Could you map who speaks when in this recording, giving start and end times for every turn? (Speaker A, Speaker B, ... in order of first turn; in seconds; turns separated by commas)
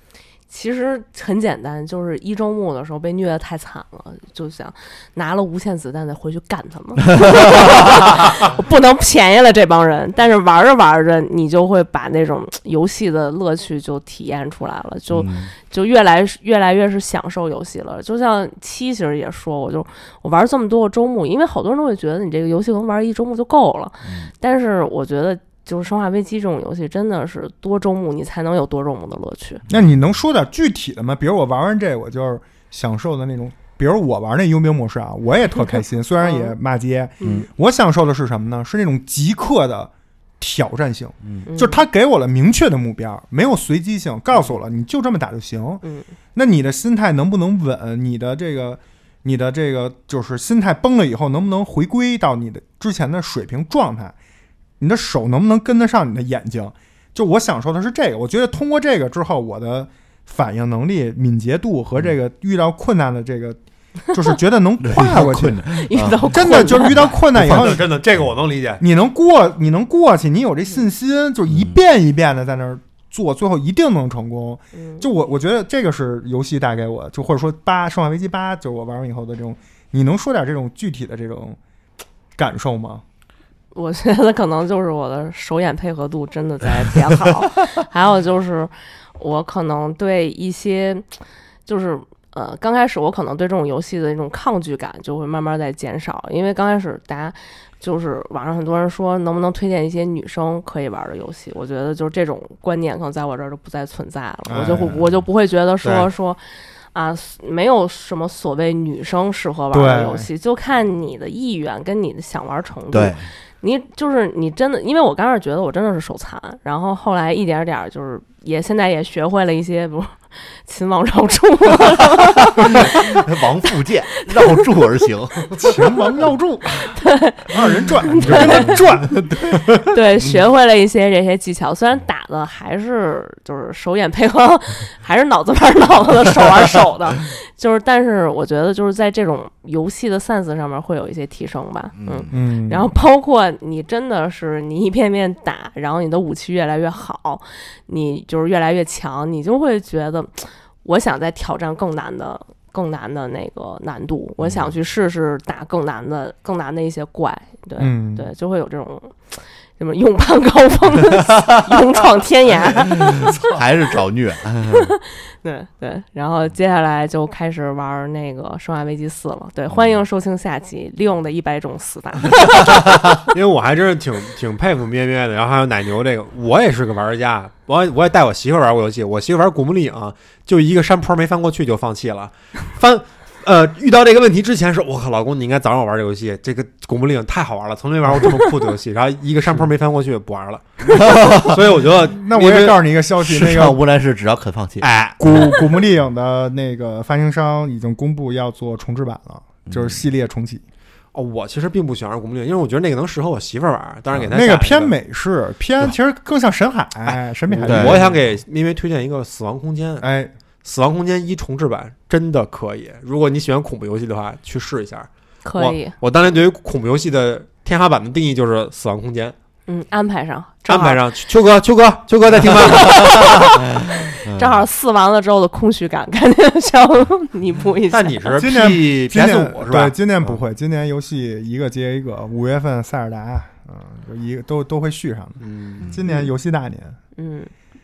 Speaker A: 0.5-29.6, Speaker B: 15.1-15.5, Speaker B: 24.0-24.3, Speaker C: 29.7-45.8, Speaker A: 36.2-36.5, Speaker A: 37.2-37.5, Speaker B: 37.2-37.5, Speaker A: 41.5-41.8, Speaker A: 45.8-46.1, Speaker C: 46.3-54.1, Speaker C: 54.8-63.6, Speaker C: 64.1-65.7, Speaker B: 64.8-67.7, Speaker A: 65.7-67.2, Speaker C: 66.2-67.9, Speaker D: 67.3-68.8, Speaker C: 68.8-81.6, Speaker A: 74.7-75.0, Speaker C: 82.3-83.0, Speaker A: 83.7-91.0, Speaker A: 91.7-106.4, Speaker C: 104.5-105.0, Speaker D: 105.8-106.1, Speaker A: 106.9-123.2, Speaker C: 109.7-110.3, Speaker B: 112.9-113.2, Speaker B: 122.5-125.5, Speaker A: 124.2-124.6, Speaker C: 125.5-126.9, Speaker A: 126.8-128.8, Speaker C: 127.5-129.7, Speaker B: 128.2-129.3, Speaker A: 129.8-163.6, Speaker B: 142.0-142.3, Speaker C: 142.3-142.9, Speaker B: 154.4-154.7, Speaker C: 157.8-158.3, Speaker B: 163.0-164.9, Speaker A: 164.6-172.8, Speaker D: 173.2-192.8, Speaker B: 190.9-191.6, Speaker C: 192.1-193.8, Speaker B: 193.3-194.9, Speaker D: 194.8-195.6, Speaker C: 195.2-200.6, Speaker B: 199.7-200.0, Speaker D: 201.1-204.9, Speaker C: 204.1-208.2, Speaker D: 207.0-210.0, Speaker B: 207.6-208.1, Speaker C: 210.0-210.3, Speaker D: 210.6-219.3, Speaker A: 215.4-215.9, Speaker A: 219.7-221.0, Speaker D: 220.7-223.4, Speaker A: 222.6-228.4, Speaker B: 222.9-224.6, Speaker D: 227.9-230.3, Speaker C: 228.3-237.0, Speaker D: 235.4-235.9, Speaker A: 237.2-237.5